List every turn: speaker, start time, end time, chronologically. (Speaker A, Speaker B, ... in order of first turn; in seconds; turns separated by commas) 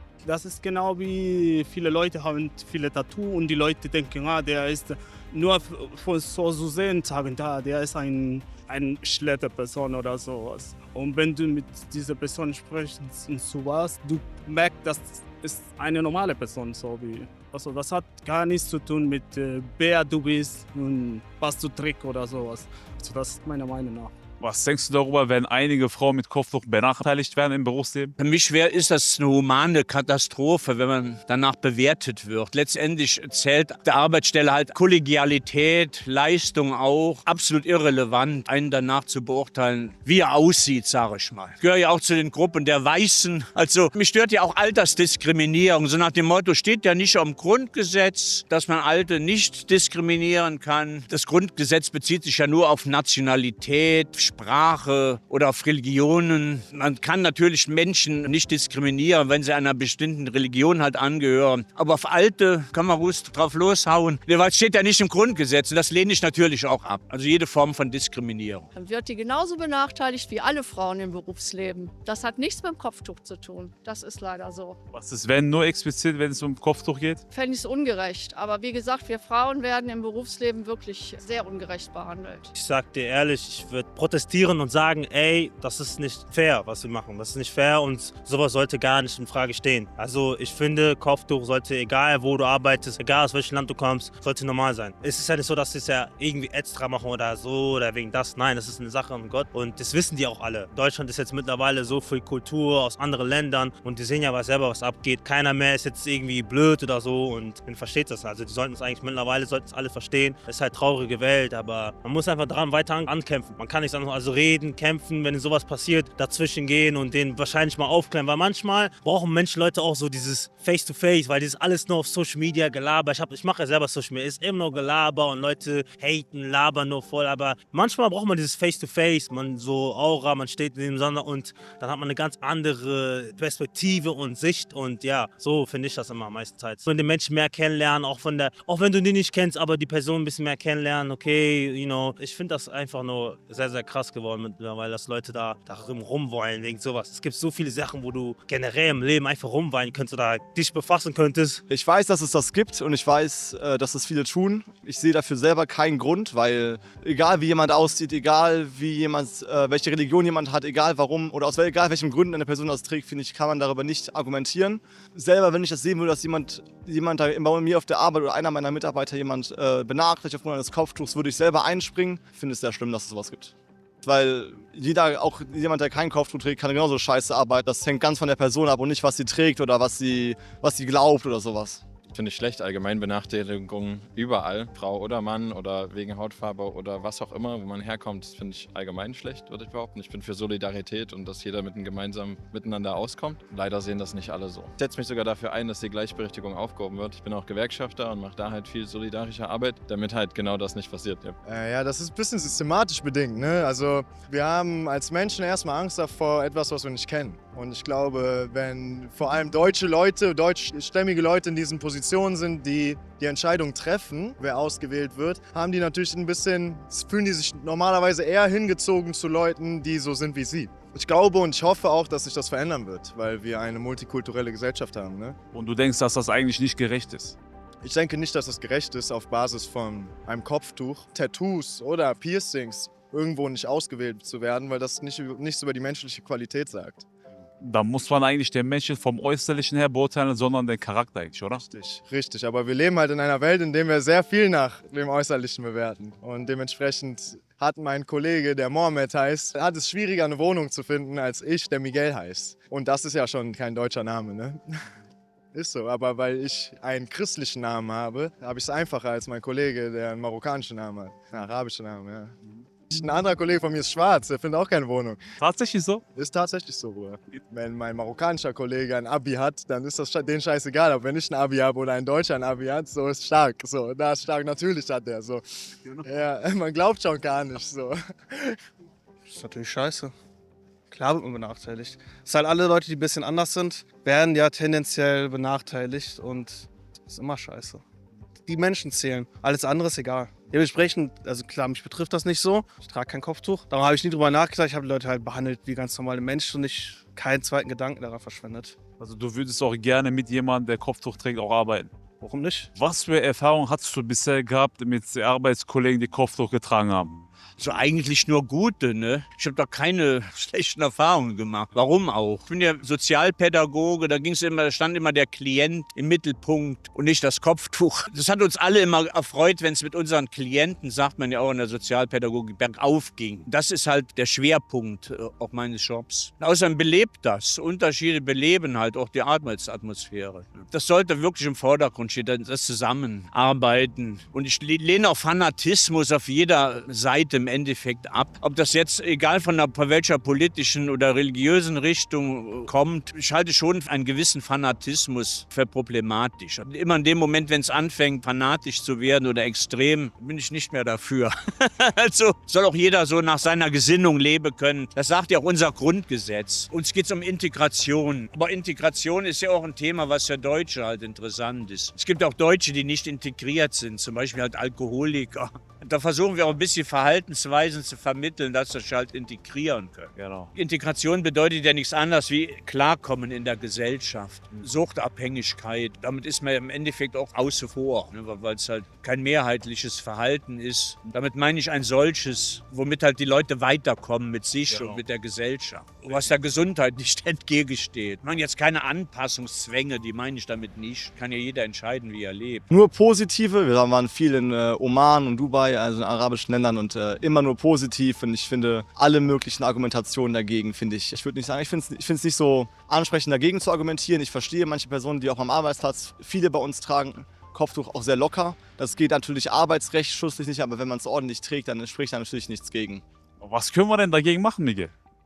Speaker A: 0.2-24.1, Speaker B: 24.4-28.1, Speaker C: 28.2-68.7, Speaker D: 68.7-74.8, Speaker B: 74.9-77.2, Speaker D: 77.3-82.5, Speaker E: 82.5-151.6, Speaker F: 151.7-181.8, Speaker G: 182.1-201.3, Speaker H: 201.4-225.4, Speaker B: 225.5-227.4, Speaker H: 227.8-237.1, Speaker B: 237.6-241.6, Speaker H: 241.6-254.6, Speaker H: 255.5-262.4, Speaker H: 262.9-265.2, Speaker B: 265.4-266.0, Speaker H: 266.1-275.4, Speaker H: 276.0-278.6, Speaker I: 279.3-280.1, Speaker I: 280.9-287.8, Speaker I: 288.5-298.8, Speaker B: 299.0-301.9, Speaker I: 302.2-302.7, Speaker B: 302.8-307.2, Speaker C: 307.6-392.6, Speaker B: 370.2-370.5, Speaker B: 384.8-385.0, Speaker F: 392.7-413.0, Speaker B: 413.4-414.9